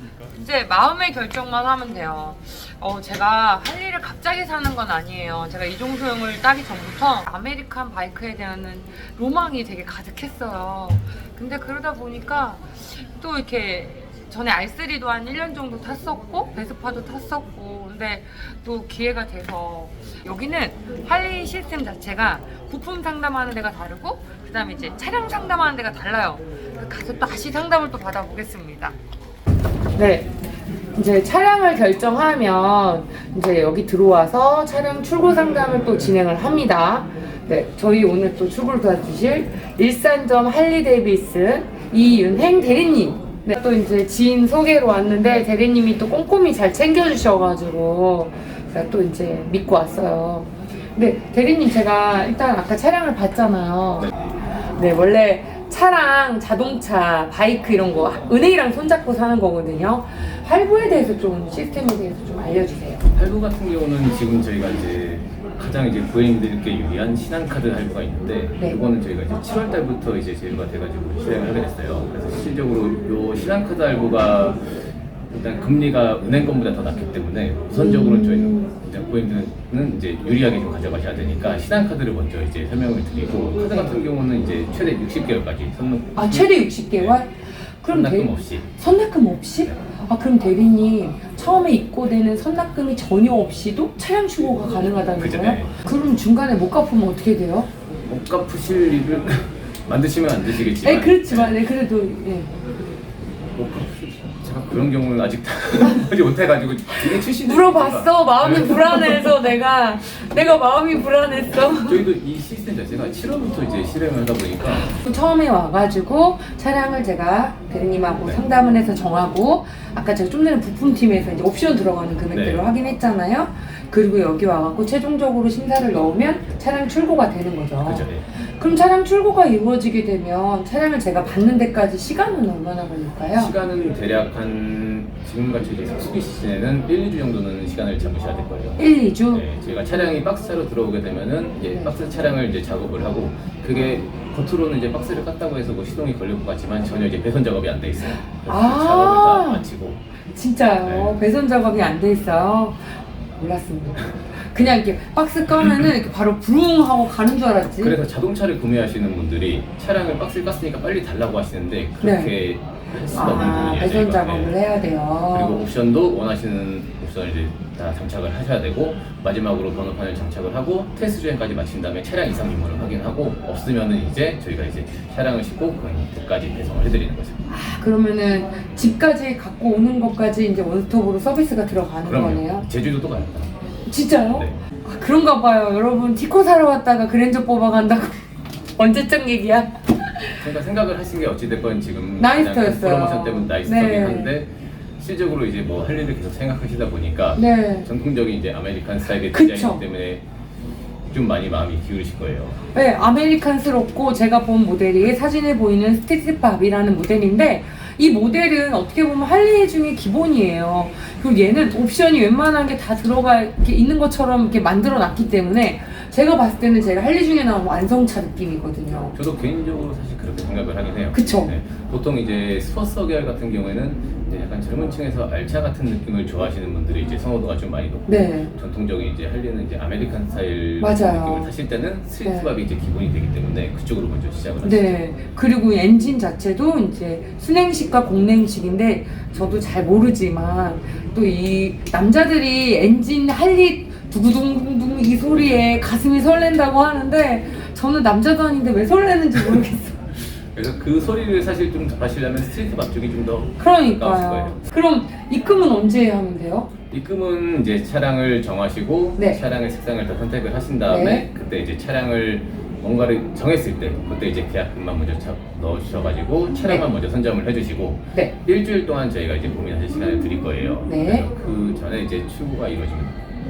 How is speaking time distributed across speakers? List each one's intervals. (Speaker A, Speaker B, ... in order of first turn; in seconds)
Speaker A: 0.3-29.0, 29.9-30.3, 30.9-63.0, 77.7-78.7, 83.7-84.0, 86.2-97.7, 100.6-102.5, 107.1-112.1, 114.8-133.5, 138.8-140.2, 148.4-149.7, 150.3-158.0, 162.0-162.3, 163.1-165.7, 177.5-182.7, 183.9-188.2, 188.8-190.5, 192.2-194.4, 197.4-197.9, 199.2-199.8, 202.7-219.2, 221.1-221.5, 228.1-228.5, 230.8-231.5, 232.2-232.5, 234.6-250.0, 253.6-256.7, 260.9-261.3, 266.6-266.9, 270.8-271.3
Speaker B: 63.1-87.2, 87.9-88.7, 95.2-95.8, 98.1-101.5, 103.5-109.6, 110.2-110.6, 111.8-114.9, 122.3-122.7, 127.8-128.3, 133.3-138.8, 139.3-150.0, 150.8-151.2, 157.8-164.6, 165.3-177.4, 182.0-183.6, 184.2-184.7, 190.4-200.3, 201.1-202.6, 219.1-235.0, 250.3-254.6, 256.9-273.2